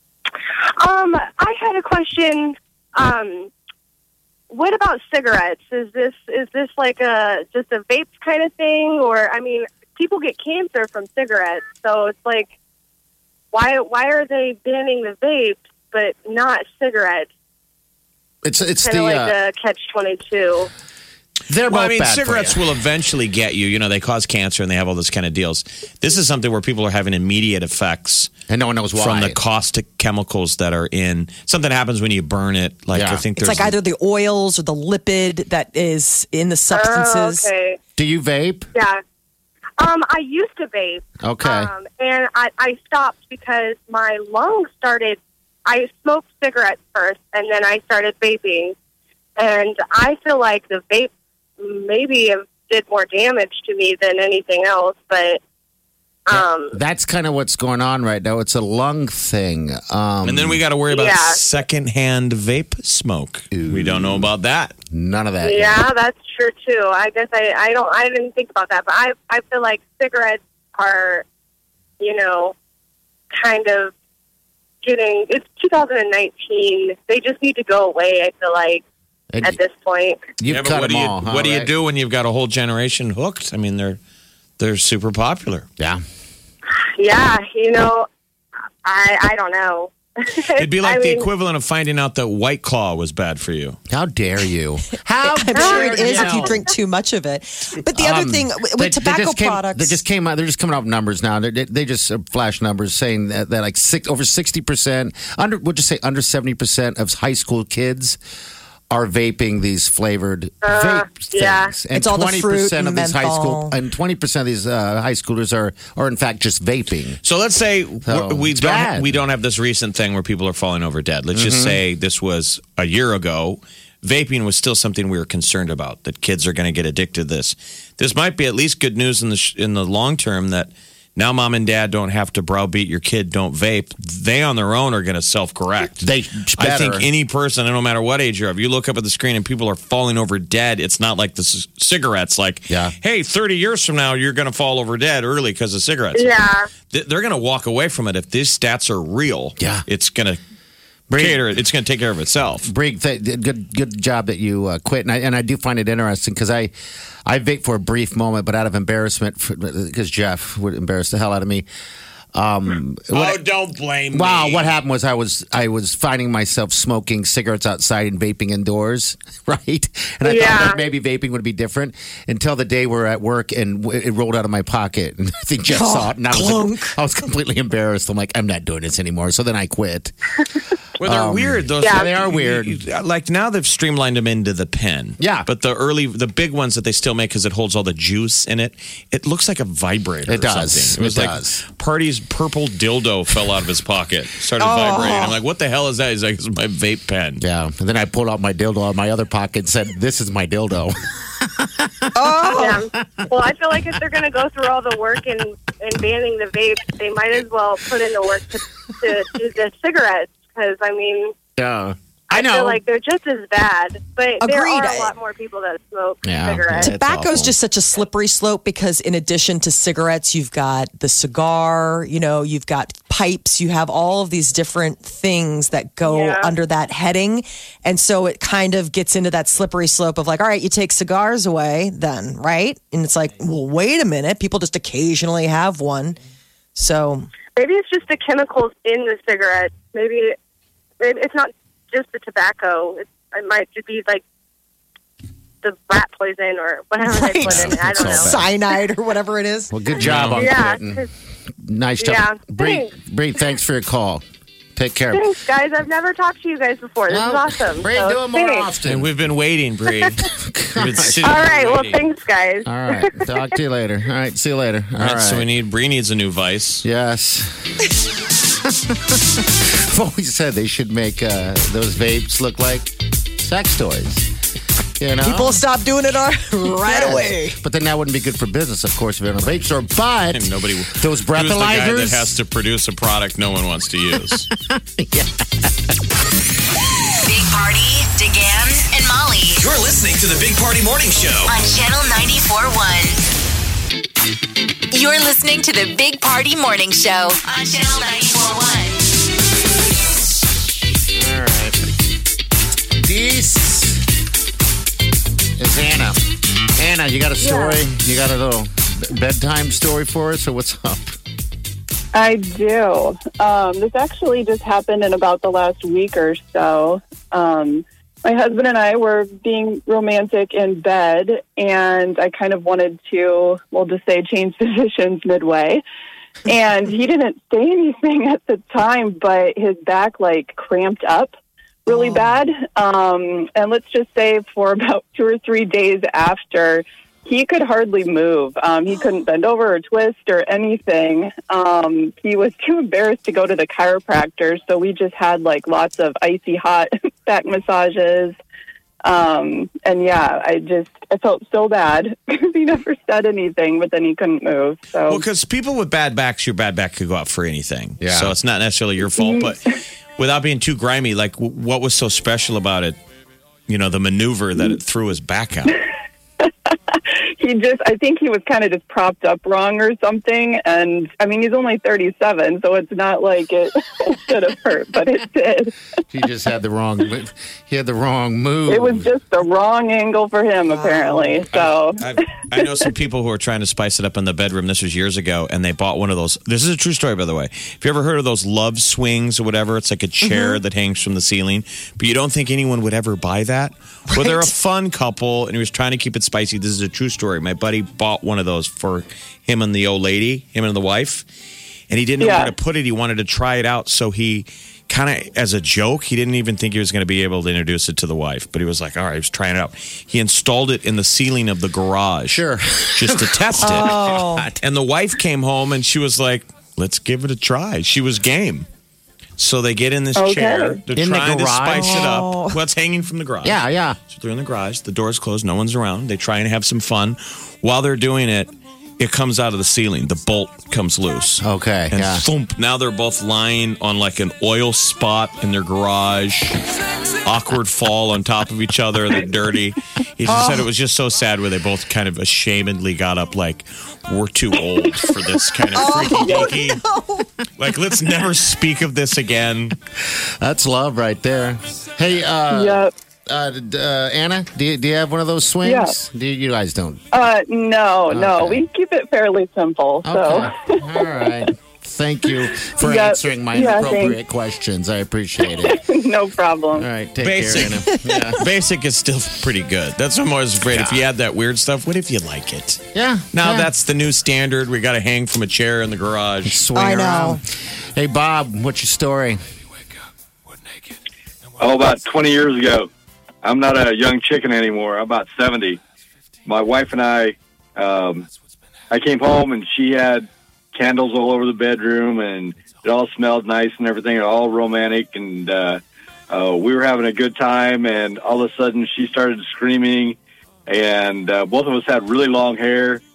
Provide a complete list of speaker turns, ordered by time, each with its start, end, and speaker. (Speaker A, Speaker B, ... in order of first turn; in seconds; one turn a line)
Speaker A: 0.8-3.5
Speaker A: 4.5-12.5
Speaker A: 13.5-17.3
Speaker B: 18.4-19.3
Speaker A: 18.8-20.7
Speaker B: 21.5-22.7
Speaker C: 21.7-28.3
Speaker B: 28.5-29.4
Speaker C: 29.0-33.7
Speaker B: 32.9-33.2
Speaker D: 33.4-37.5
Speaker A: 36.7-37.8
Speaker B: 38.0-38.7
Speaker A: 38.7-39.0
Speaker A: 39.8-48.7
Speaker B: 41.2-41.7
Speaker A: 49.4-55.4
Speaker A: 56.3-56.8
Speaker B: 56.4-60.6
Speaker C: 60.2-64.7
Speaker A: 60.8-61.4
Speaker B: 63.5-64.3
Speaker B: 64.9-65.9
Speaker A: 65.4-71.2
Speaker A: 72.0-72.5
Speaker A: 73.3-73.9
Speaker A: 74.8-78.8
Speaker A: 79.4-80.3
Speaker B: 80.4-81.7
Speaker C: 80.5-84.0
Speaker C: 84.6-85.7
Speaker A: 86.7-88.1
Speaker A: 88.8-91.3
Speaker C: 90.6-93.8
Speaker B: 93.9-96.6
Speaker D: 95.2-100.0
Speaker A: 95.5-96.5
Speaker B: 97.9-108.2
Speaker B: 108.9-117.2
Speaker A: 110.6-111.7
Speaker D: 111.9-113.7
Speaker C: 117.2-150.4
Speaker B: 118.0-119.2
Speaker B: 121.3-121.8
Speaker B: 136.0-137.1
Speaker B: 142.7-142.9
Speaker A: 146.1-146.7
Speaker B: 149.6-149.8
Speaker B: 151.1-151.5
Speaker C: 151.1-152.7
Speaker B: 152.6-156.7
Speaker B: 157.2-161.7
Speaker B: 162.3-163.4
Speaker C: 163.1-164.7
Speaker B: 164.1-180.1
Speaker A: 170.2-170.8
Speaker D: 175.7-177.0
Speaker C: 181.0-197.4
Speaker B: 181.0-182.8
Speaker A: 181.8-182.1
Speaker B: 185.2-185.5
Speaker B: 190.3-191.6
Speaker D: 194.6-195.4
Speaker B: 197.4-202.2
Speaker D: 202.1-202.8
Speaker A: 202.4-211.3
Speaker B: 202.9-203.3
Speaker B: 211.6-212.8
Speaker A: 212.3-216.9
Speaker D: 214.4-215.1
Speaker B: 216.2-217.6
Speaker D: 216.8-236.2
Speaker A: 226.0-226.5
Speaker D: 236.8-237.3
Speaker A: 237.5-240.4
Speaker A: 241.0-244.2
Speaker A: 245.6-248.4
Speaker D: 247.1-249.7
Speaker B: 247.4-248.5
Speaker B: 249.7-251.0
Speaker C: 250.0-250.4
Speaker A: 250.3-251.1
Speaker B: 251.6-254.2
Speaker A: 252.0-252.9
Speaker B: 254.8-255.2
Speaker A: 255.1-258.7
Speaker B: 257.1-259.1
Speaker C: 258.8-260.2
Speaker A: 259.9-260.1
Speaker B: 260.2-261.3
Speaker C: 260.7-262.0
Speaker A: 261.2-263.6
Speaker B: 262.6-265.5
Speaker C: 265.0-266.8
Speaker B: 266.8-267.5
Speaker B: 268.6-274.3
Speaker B: 275.0-275.6
Speaker D: 275.2-277.6
Speaker B: 276.8-282.3
Speaker C: 280.3-284.4
Speaker B: 284.3-285.9
Speaker E: 287.2-289.6
Speaker F: 289.6-291.5
Speaker E: 291.5-293.2
Speaker E: 294.9-299.1
Speaker B: 301.1-301.8
Speaker B: 302.9-304.0
Speaker B: 305.6-306.2
Speaker B: 306.8-311.2
Speaker G: 312.1-325.8
Speaker G: 326.4-331.3
Speaker G: 331.9-348.4
Speaker D: 331.9-332.3
Speaker G: 349.0-355.2
Speaker C: 355.1-363.0
Speaker B: 358.0-358.4
Speaker G: 359.1-359.5
Speaker C: 363.7-365.8
Speaker G: 366.4-375.7
Speaker B: 376.1-379.1
Speaker G: 378.7-382.9
Speaker D: 381.0-381.3
Speaker C: 381.5-401.2
Speaker D: 390.2-390.6
Speaker D: 394.1-394.5
Speaker C: 401.9-414.0
Speaker G: 402.2-402.5
Speaker B: 412.3-414.6
Speaker D: 413.6-414.5
Speaker C: 414.6-418.7
Speaker C: 419.4-436.6
Speaker G: 420.1-420.8
Speaker B: 420.9-422.1
Speaker D: 421.7-422.6
Speaker B: 423.4-424.0
Speaker B: 431.4-432.2
Speaker C: 437.2-446.8
Speaker D: 440.3-440.6
Speaker D: 445.7-447.3
Speaker G: 446.2-446.6
Speaker C: 447.6-449.8
Speaker B: 450.0-457.0
Speaker G: 452.5-452.9
Speaker G: 455.6-455.9
Speaker G: 457.1-460.8
Speaker B: 458.1-458.6
Speaker B: 460.0-465.8
Speaker G: 462.8-464.2
Speaker G: 465.6-466.9
Speaker B: 466.7-468.4
Speaker C: 467.2-476.6
Speaker D: 467.9-468.3
Speaker B: 470.6-471.0
Speaker B: 472.9-473.7
Speaker B: 476.4-479.4
Speaker D: 476.7-477.4
Speaker H: 481.6-482.9
Speaker H: 483.4-485.8
Speaker H: 486.4-488.3
Speaker H: 488.9-503.0